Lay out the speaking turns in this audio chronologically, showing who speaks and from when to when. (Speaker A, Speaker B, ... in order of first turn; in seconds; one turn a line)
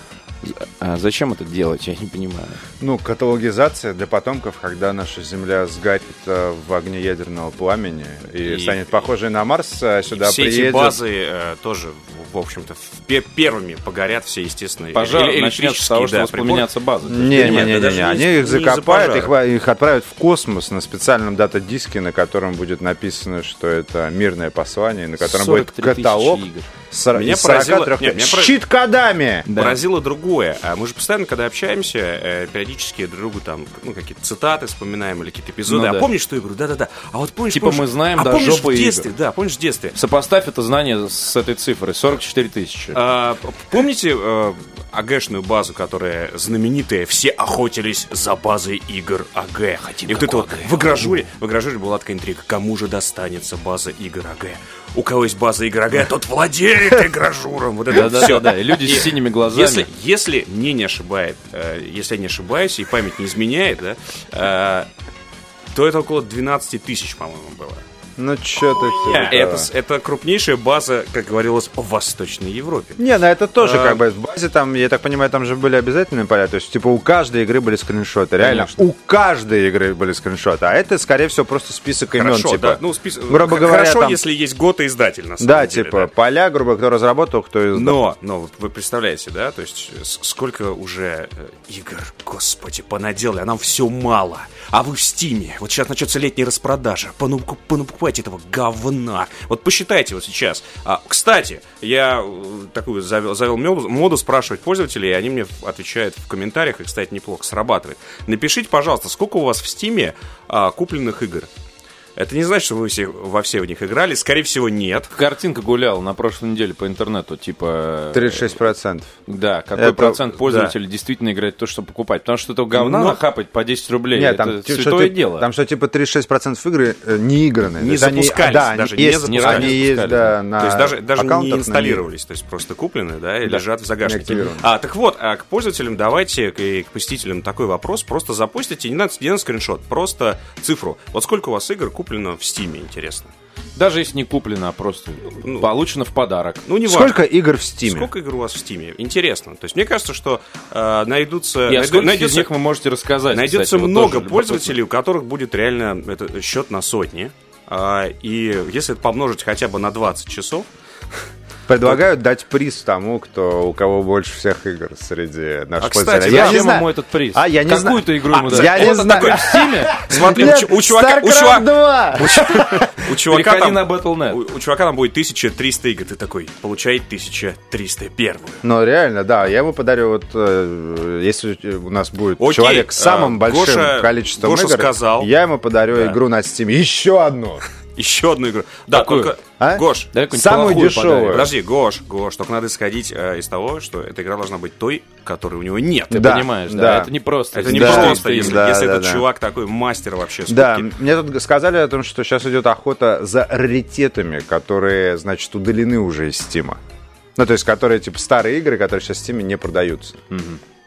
Speaker A: 0.4-2.6
Speaker B: 2.8-11.0
Speaker A: 8.5-8.8
Speaker C: 10.1-16.7
Speaker A: 14.9-17.8
Speaker B: 17.1-29.5
Speaker C: 17.2-19.3
Speaker A: 25.2-26.7
Speaker C: 27.1-28.6
Speaker A: 29.5-29.8
Speaker C: 29.5-40.0
Speaker A: 35.7-36.1
Speaker A: 37.5-39.1
Speaker A: 40.0-43.0
Speaker C: 42.9-64.9
Speaker A: 49.9-51.1
Speaker A: 57.9-59.9
Speaker C: 65.7-67.8
Speaker B: 68.2-69.7
Speaker A: 69.0-69.4
Speaker C: 69.2-73.0
Speaker B: 73.0-84.2
Speaker C: 73.6-74.0
Speaker A: 78.4-78.8
Speaker C: 82.1-86.1
Speaker B: 85.4-88.0
Speaker C: 87.7-111.5
Speaker C: 112.2-115.1
Speaker A: 115.1-118.6
Speaker B: 118.1-119.1
Speaker A: 119.3-125.5
Speaker B: 119.8-120.2
Speaker C: 120.4-120.7
Speaker C: 122.7-123.2
Speaker B: 124.1-132.0
Speaker C: 127.8-129.8
Speaker A: 129.2-130.4
Speaker C: 130.6-143.3
Speaker B: 133.5-134.7
Speaker A: 143.8-146.7
Speaker C: 146.7-147.2
Speaker B: 146.8-148.1
Speaker C: 147.8-152.5
Speaker A: 151.7-154.8
Speaker C: 153.3-160.7
Speaker B: 161.7-173.0
Speaker C: 165.8-166.7
Speaker A: 165.8-170.4
Speaker C: 168.3-178.6
Speaker A: 173.3-174.4
Speaker B: 178.6-187.6
Speaker C: 182.4-185.3
Speaker C: 188.0-190.1
Speaker A: 188.9-189.3
Speaker B: 189.0-191.5
Speaker A: 190.1-191.5
Speaker C: 191.3-196.4
Speaker B: 196.1-197.1
Speaker A: 196.1-198.7
Speaker C: 197.5-200.9
Speaker B: 197.7-199.2
Speaker B: 200.5-206.8
Speaker B: 207.4-210.2
Speaker A: 210.3-210.6